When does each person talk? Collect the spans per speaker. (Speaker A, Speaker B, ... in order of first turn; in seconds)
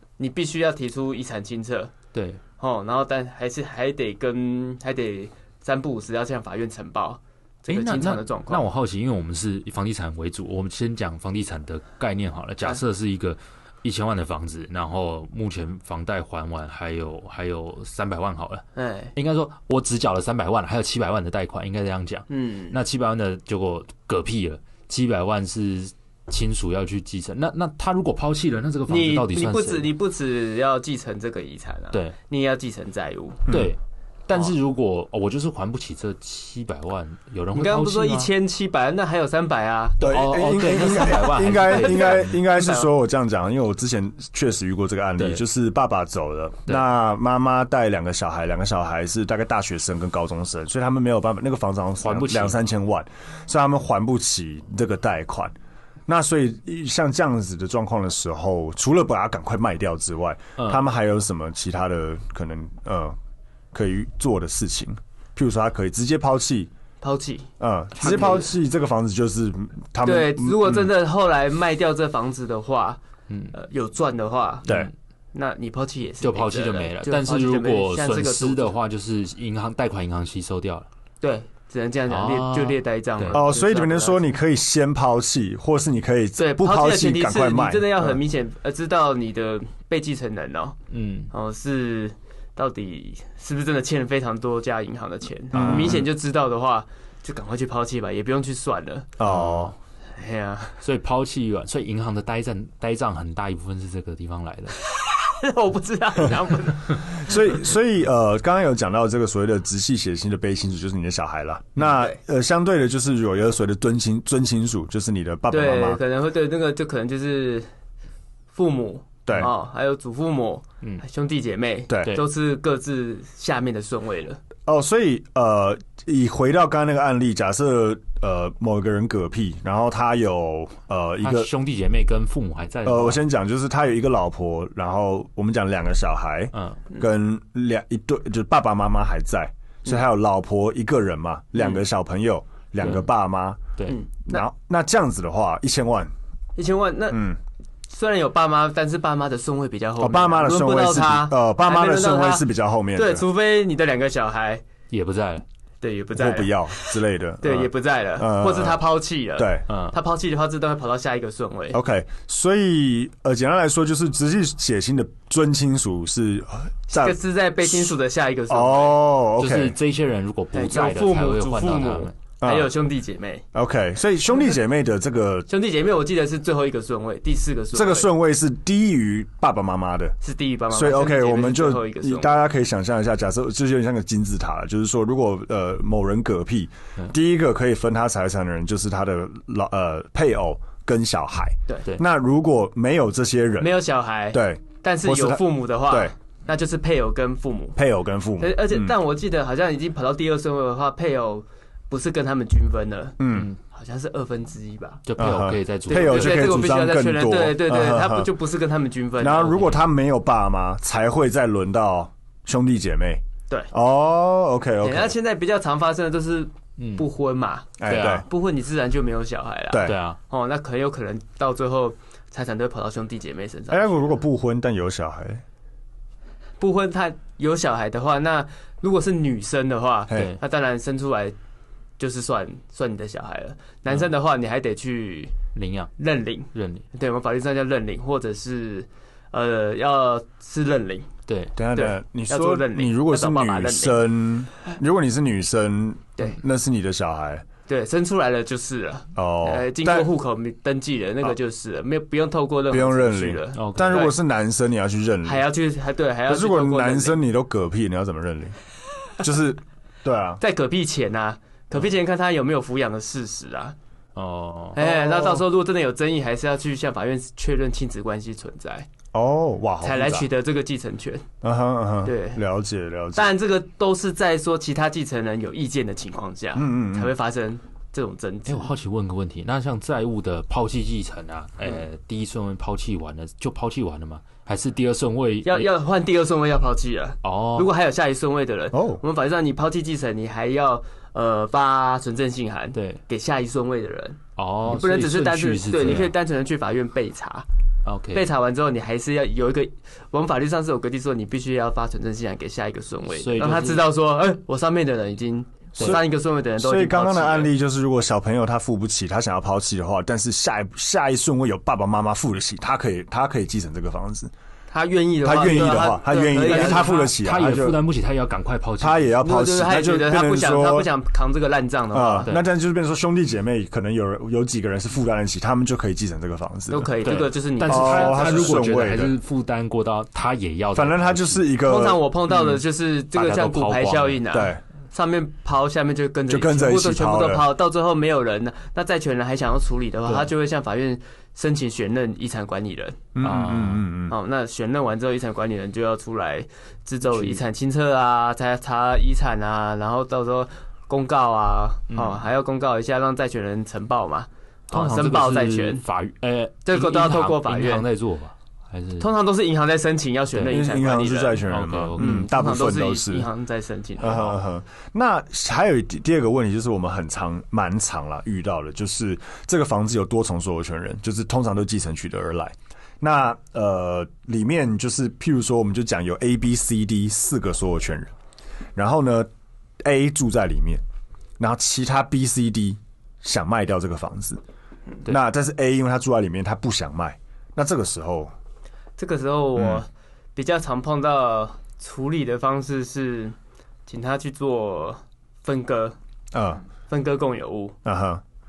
Speaker A: 0.2-1.9, 2.6-8.6, 18.8-19.1, 22.3-22.8, 28.9-33.5, 37.5-40.1, 41.6-42.9, 67.0-68.5, 70.0-73.0, 73.5-74.6, 75.3-78.7, 81.2-84.3, 86.4-90.8, 91.3-99.1, 100.2-100.8, 104.8-107.4, 115.5-117.7, 118.5-124.4, 143.8-144.4, 146.6-147.2, 147.9-154.6, 155.8-161.8, 166.9-169.0, 170.5-173.4, 175.5-178.1, 180.2-182.3, 193.6-197.8, 198.4-205.0, 205.9-209.7, 214.8-224.2, 226.6-231.3, 232.0-235.3, 236.0-241.1, 241.7-244.1, 247.7-254.1, 255.2-257.2, 260.4-263.7, 264.8-268.9, 269.8-271.2, 272.0-272.4, 273.1-278.7, 285.4-297.4, 298.1-307.5, 314.7-317.1, 319.2-322.3, 326.7-328.6, 331.6-343.0, 344.1-355.8, 356.6-357.9, 359.0-361.4, 362.0-364.4, 389.0-393.3, 393.9-395.9, 396.9-397.8
Speaker B: 2.1-2.4, 7.7-29.9, 33.5-38.3, 40.0-42.3, 52.0-52.6, 60.6-60.8, 68.1-68.3, 73.3-73.5, 74.6-74.9, 76.2-80.9, 82.1-83.4, 90.9-91.3, 95.5-96.0, 99.2-99.7, 100.8-104.8, 131.2-133.2, 136.5-136.8, 142.8-143.1, 154.9-155.4, 159.7-159.9, 169.4-172.1, 203.3-203.6, 205.1-206.6, 216.8-217.1, 217.9-218.2, 219.8-220.2, 230.1-230.4, 235.5-235.9, 236.5-236.8, 241.3-241.5, 253.5-254.1, 264.1-264.8, 278.5-285.7, 287.2-287.7, 292.7-293.0, 294.4-296.1, 297.8-298.3, 303.2-303.9, 305.8-306.0, 316.4-319.2, 327.0-331.4, 332.3-332.6, 333.1-334.2, 343.2-343.9, 347.1-347.4, 351.9-352.2, 354.7-359.1, 361.4-362.3
Speaker C: 33.5-33.7, 40.0-55.5, 56.1-63.1, 63.7-66.7, 67.6-70.9, 83.3-88.2, 95.5-96.0, 99.2-99.7, 107.1-116.0, 121.9-122.2, 124.7-131.5, 132.8-143.6, 144.2-146.1, 147.1-147.4, 150.0-153.2, 156.1-158.8, 159.4-159.6, 161.7-167.9, 168.5-169.8, 172.4-172.7, 173.5-175.5, 177.7-180.2, 180.7-193.7, 194.3-196.1, 197.8-198.9, 203.2-203.5, 205.2-208.3, 209.2-215.1, 217.8-218.2, 219.7-220.0, 223.7-225.4, 241.6-247.4, 249.1-250.1, 252.7-255.4, 256.3-258.6, 259.2-260.4, 269.1-270.3, 271.4-273.3, 276.5-277.1, 288.7-289.0, 305.8-306.1, 306.6-314.3, 315.2-317.8, 318.8-320.9, 321.9-326.9, 327.7-329.1, 330.7-332.0, 334.3-334.6, 336.3-337.5, 343.1-344.1, 360.5-363.3, 364.0-378.1, 378.8-379.3, 379.8-380.8, 381.4-384.4, 385.1-388.3, 389.6-389.8, 396.3-396.6, 397.8-398.2